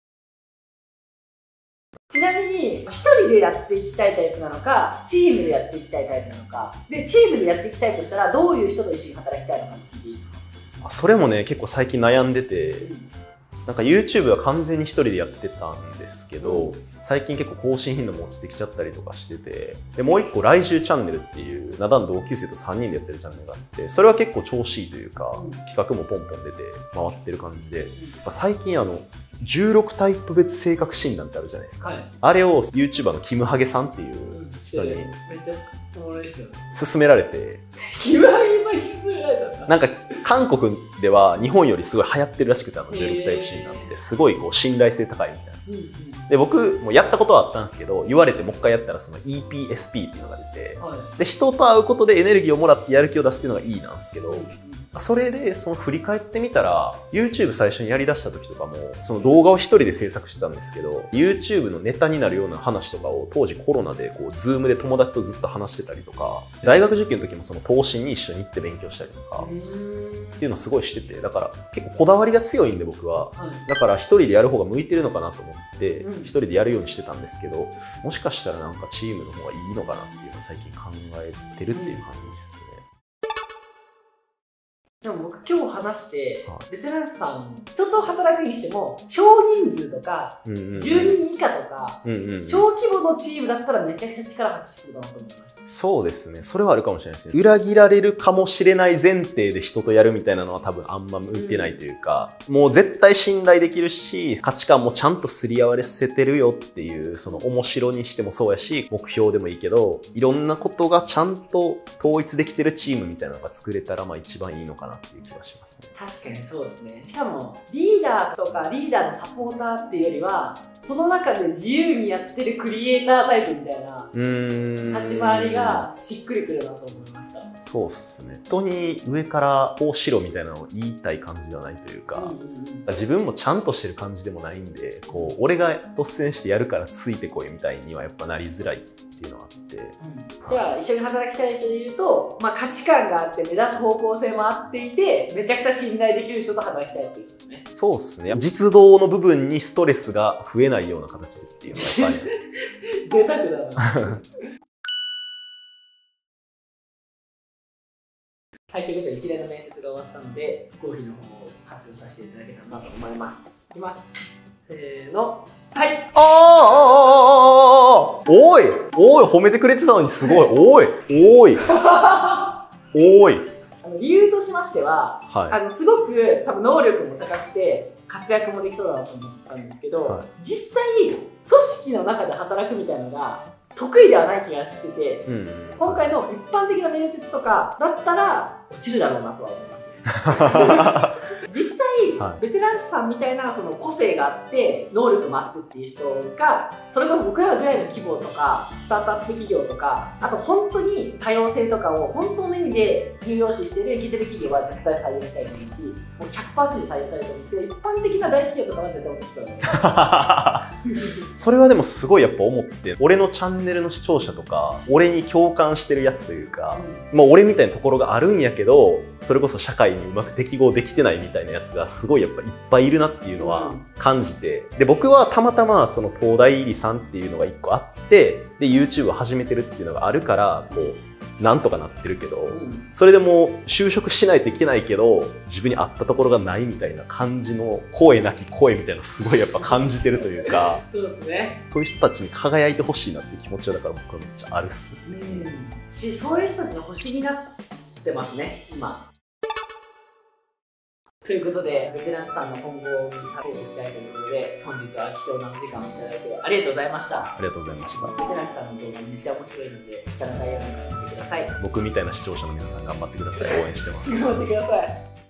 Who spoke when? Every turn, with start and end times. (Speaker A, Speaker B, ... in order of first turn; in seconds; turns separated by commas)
Speaker A: 2.1-10.4, Speaker B: 10.8-12.9, Speaker A: 12.8-13.1, Speaker B: 13.7-35.2, Speaker A: 16.4-16.8, Speaker A: 25.3-25.6, Speaker A: 31.8-32.1, Speaker A: 34.3-36.6, Speaker B: 36.7-37.6, Speaker A: 38.0-39.8, Speaker B: 39.7-45.6, Speaker A: 42.9-44.0, Speaker A: 45.7-46.3, Speaker B: 46.3-69.5, Speaker A: 50.8-51.1, Speaker A: 54.3-54.9, Speaker A: 69.4-70.5, Speaker B: 70.4-82.8, Speaker A: 73.4-73.7, Speaker A: 76.0-76.3, Speaker A: 81.7-82.0, Speaker A: 85.0-95.6, Speaker B: 90.5-91.2, Speaker B: 92.0-92.7, Speaker B: 95.7-115.9, Speaker A: 101.3-101.8, Speaker A: 116.0-124.1, Speaker B: 124.1-125.9, Speaker A: 124.8-127.5, Speaker B: 127.6-132.3, Speaker A: 132.1-132.9, Speaker B: 132.9-140.0, Speaker A: 135.1-135.4, Speaker A: 140.0-147.7, Speaker B: 147.8-152.3, Speaker A: 151.7-152.3, Speaker A: 153.1-154.2, Speaker A: 158.7-166.1, Speaker B: 166.1-171.6, Speaker A: 170.2-170.5, Speaker A: 171.6-172.6, Speaker B: 172.9-173.5, Speaker A: 173.8-190.9, Speaker B: 175.3-175.6, Speaker B: 185.2-186.1, Speaker B: 190.2-191.2, Speaker A: 191.4-210.1, Speaker B: 209.7-210.7, Speaker A: 210.9-211.1, Speaker B: 211.4-240.8, Speaker A: 216.7-217.1, Speaker A: 223.4-223.8, Speaker A: 230.7-230.9, Speaker A: 232.5-232.9, Speaker A: 239.6-241.6, Speaker B: 241.7-245.5, Speaker A: 245.1-247.5, Speaker A: 248.0-249.1, Speaker A: 251.2-257.4, Speaker B: 257.4-258.2, Speaker A: 258.0-261.5, Speaker B: 261.6-264.5, Speaker A: 263.4-265.0